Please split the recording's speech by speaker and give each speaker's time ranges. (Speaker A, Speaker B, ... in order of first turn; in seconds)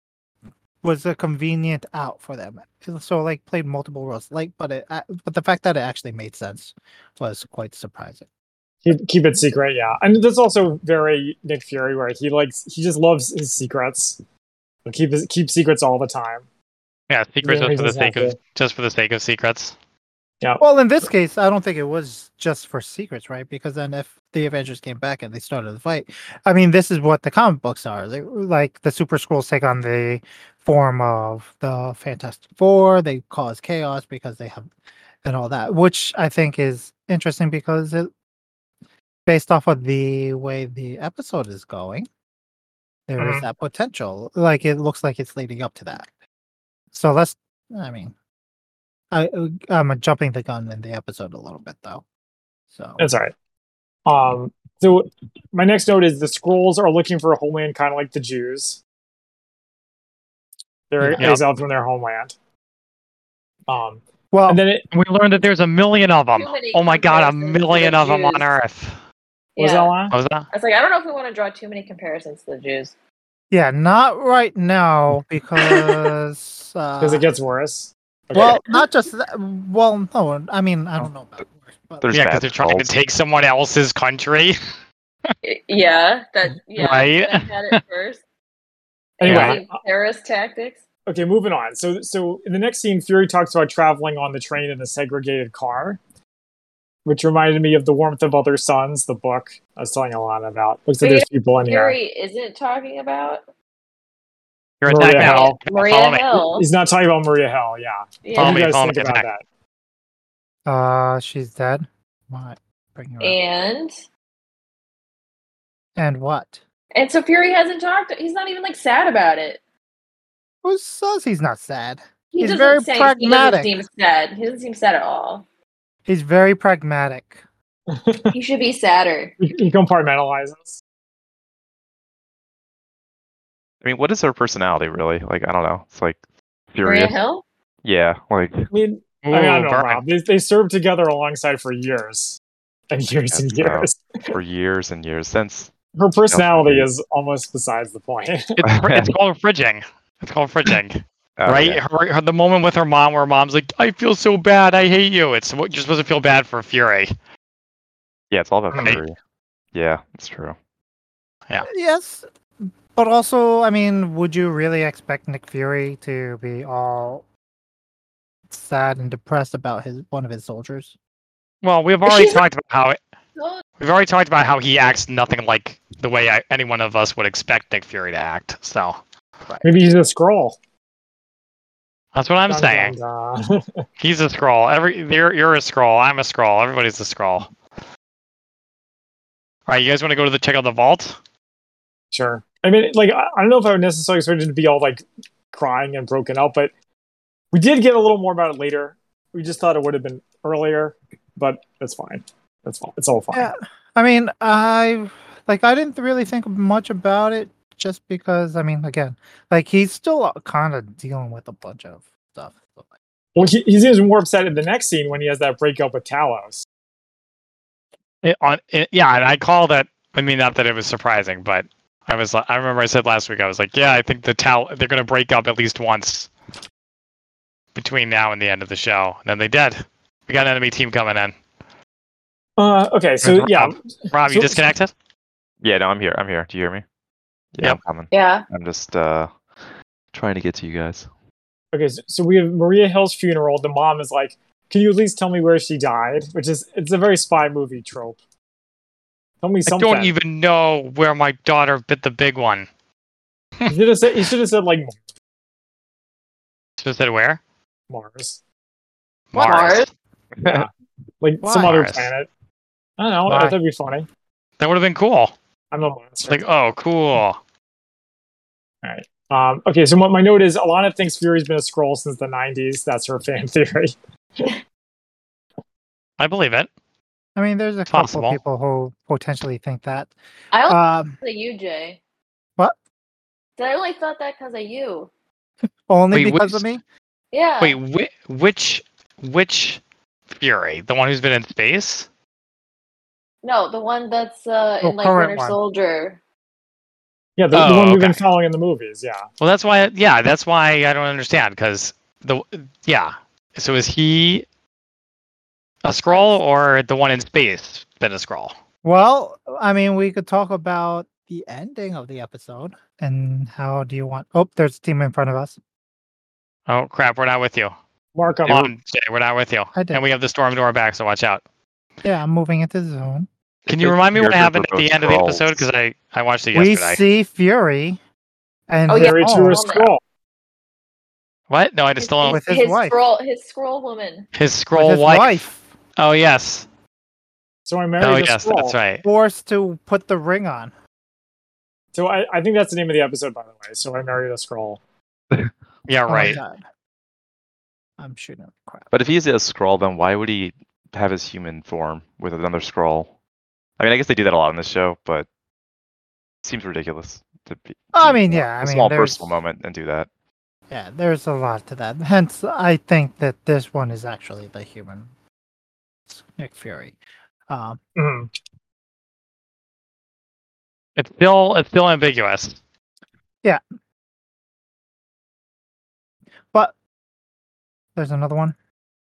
Speaker A: 0.8-8.3, 20.6-34.7, 35.2-38.1, 39.2-42.1, 43.1-46.1, 46.9-48.1, 49.1-52.0, 52.7-53.0, 61.0-61.3, 64.3-64.6, 73.5-77.3, 78.3-82.1, 110.7-113.3, 116.0-116.6, 120.6-123.7, 126.0-127.4, 161.6-162.2, 162.9-167.2, 168.5-170.9, 203.3-212.9, 261.4-261.8, 277.4-280.1, 280.6-281.2, 285.9-286.8, 294.8-295.6, 308.8-315.6, 319.7-320.0, 322.0-323.3, 326.5-328.0, 328.7-329.6, 332.3-332.9, 334.7-335.7, 339.0-340.7, 346.1-346.6, 348.0-348.9, 357.9-359.4, 360.7-365.1, 366.1-367.0, 367.5-367.8, 377.9-378.5
Speaker B: 8.8-14.2, 14.8-16.4, 17.4-18.4, 43.2-43.5, 53.0-53.3, 54.0-58.8, 60.9-62.3, 63.7-64.8, 69.6-70.2, 77.0-78.6, 89.2-89.8, 91.1-96.0, 97.0-102.0, 104.8-105.6, 106.3-109.4, 127.9-128.3, 129.4-130.8, 138.7-142.4, 142.9-144.3, 145.9-148.6, 158.7-159.0, 179.6-180.6, 182.5-183.8, 192.1-196.7, 197.5-203.5, 213.3-216.7, 232.6-234.7, 241.7-248.2, 249.4-250.1, 253.7-255.0, 257.9-258.4, 260.4-260.7, 261.2-262.3, 263.0-264.1, 265.7-266.4, 268.8-274.5, 297.4-299.2, 318.1-318.7, 328.9-330.0, 337.6-338.8, 341.9-344.8, 367.9-368.3
Speaker C: 17.1-19.7, 64.9-69.0, 70.1-70.5, 82.1-84.5, 86.8-87.8, 89.2-89.6, 104.8-106.3, 108.4-109.3, 139.2-140.0, 148.6-157.1, 171.6-173.0, 173.8-179.0, 182.1-182.9, 184.0-187.5, 189.7-191.2, 218.2-226.3, 227.7-231.3, 233.2-234.9, 249.7-252.7, 256.8-257.4, 259.3-259.9, 261.5-262.1, 263.3-263.5, 264.6-265.3, 266.2-267.4, 276.2-276.7, 277.9-278.4, 286.1-286.6, 287.6-289.8, 290.3-292.1, 297.5-298.2, 299.4-304.4, 305.8-308.5, 316.7-317.7, 318.5-321.4, 323.7-327.0, 331.5-332.4, 334.3-335.4, 336.0-336.6, 338.0-339.0, 345.9-346.4, 371.0-372.6
Speaker D: 66.3-68.4, 69.5-69.9, 70.5-72.9, 75.6-76.1, 85.4-88.2, 89.2-90.8, 101.0-103.4, 105.2-106.7, 108.2-108.7, 113.2-113.9, 116.9-119.6, 122.3-125.4, 128.3-129.3, 136.8-137.4, 173.3-173.6, 238.1-238.4, 259.3-259.9, 280.5-282.0, 283.6-285.1, 287.3-287.8, 293.4-296.2, 306.1-306.4, 328.9-329.9, 332.0-334.3
Speaker E: 82.0-82.9, 133.8-136.2, 136.7-137.2, 137.8-138.7, 143.3-145.7, 146.3-146.9, 148.6-149.1, 151.4-151.8, 158.3-159.2, 159.7-160.6, 235.6-236.8, 237.5-239.3, 240.1-241.1, 260.4-260.6, 323.7-325.6, 348.9-353.1, 353.8-355.2, 356.4-360.1